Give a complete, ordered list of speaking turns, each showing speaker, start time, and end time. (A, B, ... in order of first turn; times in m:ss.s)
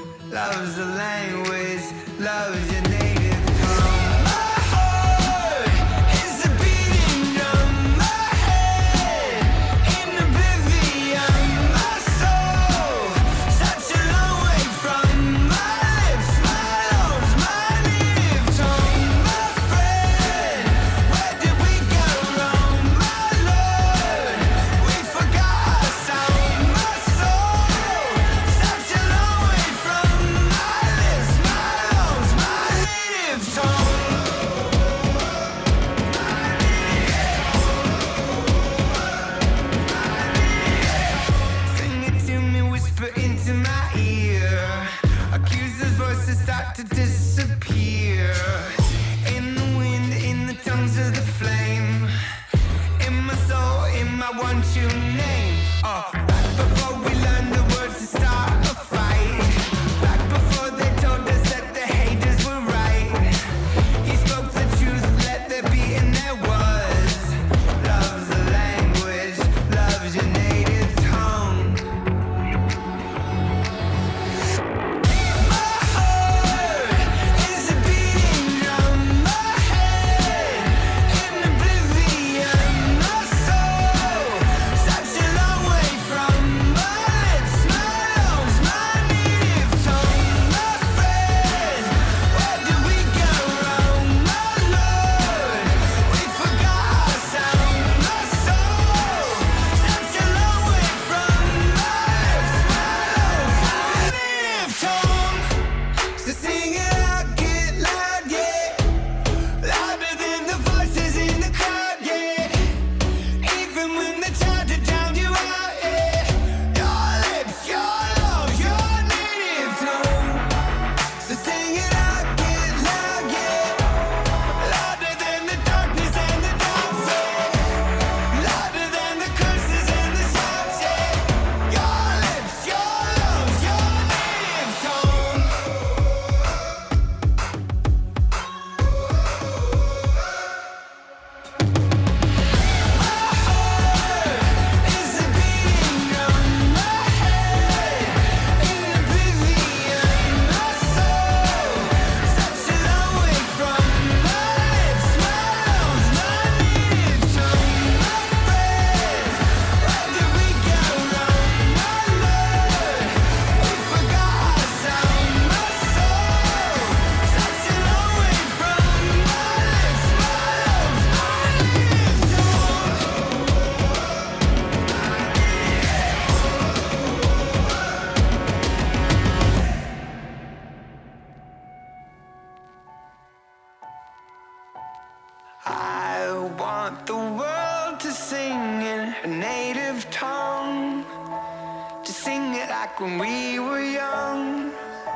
0:00.3-0:35.2 A
0:35.9-0:52.2 A
0:53.0-1:11.8 A
1:15.0-1:45.6 A
1:46.2-1:48.9 A
1:49.6-2:00.5 A
2:01.2-2:15.7 A
2:22.8-2:53.2 A
3:05.6-3:11.1 A
3:12.0-3:14.8 A